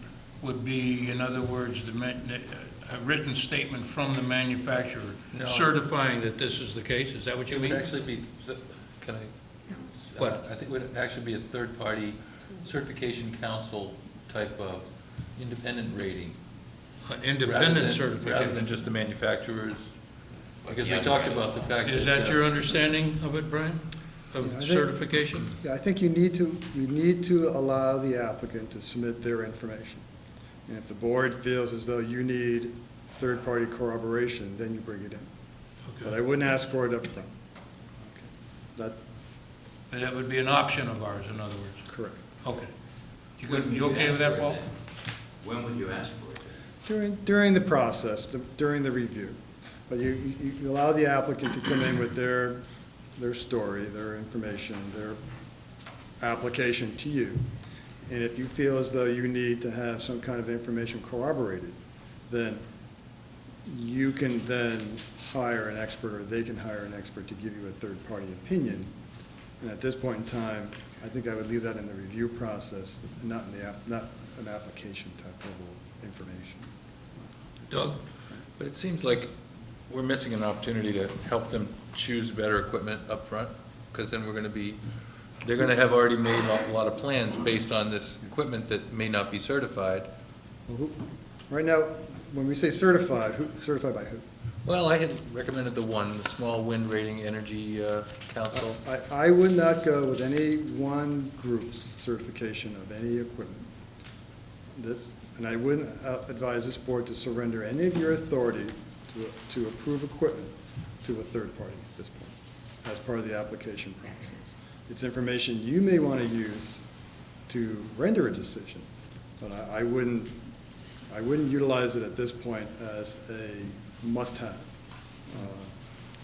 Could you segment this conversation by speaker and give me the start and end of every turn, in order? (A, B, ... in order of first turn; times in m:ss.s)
0:00.4-0:07.9 A
0:05.3-0:05.8 B
0:07.5-0:16.4 B
0:10.2-0:10.4 A
0:17.0-0:18.6 A
0:17.4-0:20.0 B
0:20.6-0:22.4 B
0:20.8-0:21.5 C
0:21.8-0:25.5 A
0:24.4-0:30.0 D
0:30.7-0:35.3 D
0:35.9-0:36.1 A
0:36.0-0:37.3 D
0:38.0-0:39.0 D
0:39.9-0:42.7 A
0:41.9-0:42.2 D
0:43.4-0:44.6 A
0:43.4-0:44.7 C
0:45.4-0:46.5 C
0:46.8-0:49.4 D
0:49.9-0:52.6 D
0:53.2-0:55.2 D
0:56.2-0:57.4 D
0:58.1-1:01.8 D
1:02.3-1:02.6 D
1:03.7-1:08.9 D
1:09.6-1:16.7 D
1:17.7-1:18.0 B
1:18.6-1:19.3 B
1:19.9-1:24.8 B
1:25.4-1:30.1 B
1:30.7-1:31.0 D
1:31.5-1:34.2 D
1:34.6-1:38.8 B
1:38.5-1:43.7 D
1:44.8-1:56.8 D
1:57.5-1:58.9 D
1:59.4-2:00.4 D
2:01.1-2:04.8 D
2:05.3-2:05.8 D